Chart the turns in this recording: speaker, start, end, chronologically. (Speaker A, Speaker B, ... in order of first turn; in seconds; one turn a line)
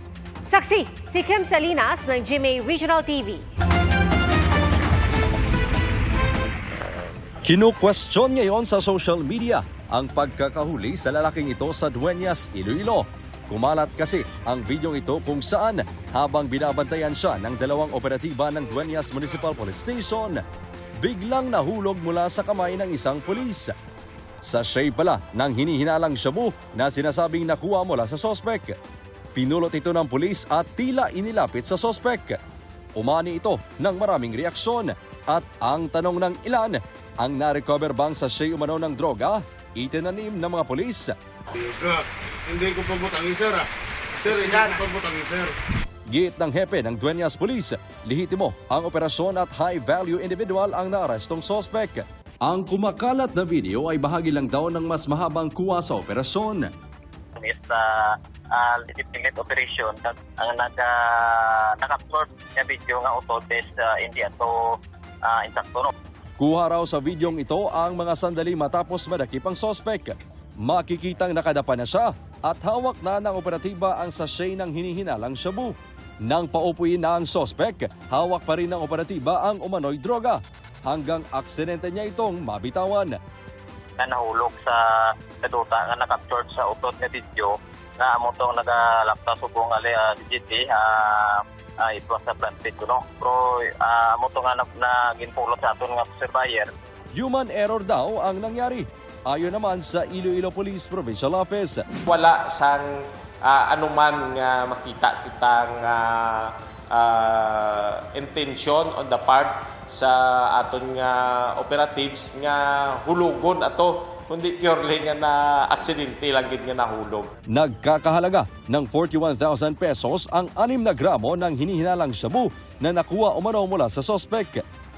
Speaker A: 0.5-3.4
Speaker B: 7.4-20.4
Speaker B: 21.0-23.7
Speaker B: 24.4-28.8
Speaker B: 29.3-32.4
Speaker B: 33.0-41.1
Speaker C: 41.6-43.7
Speaker C: 44.2-45.5
Speaker B: 46.1-56.7
Speaker D: 57.4-65.9
Speaker B: 66.4-83.2
Speaker D: 84.0-84.8
Speaker D: 85.4-96.7
Speaker B: 97.1-101.8
Speaker E: 102.0-117.3
Speaker B: 117.5-124.6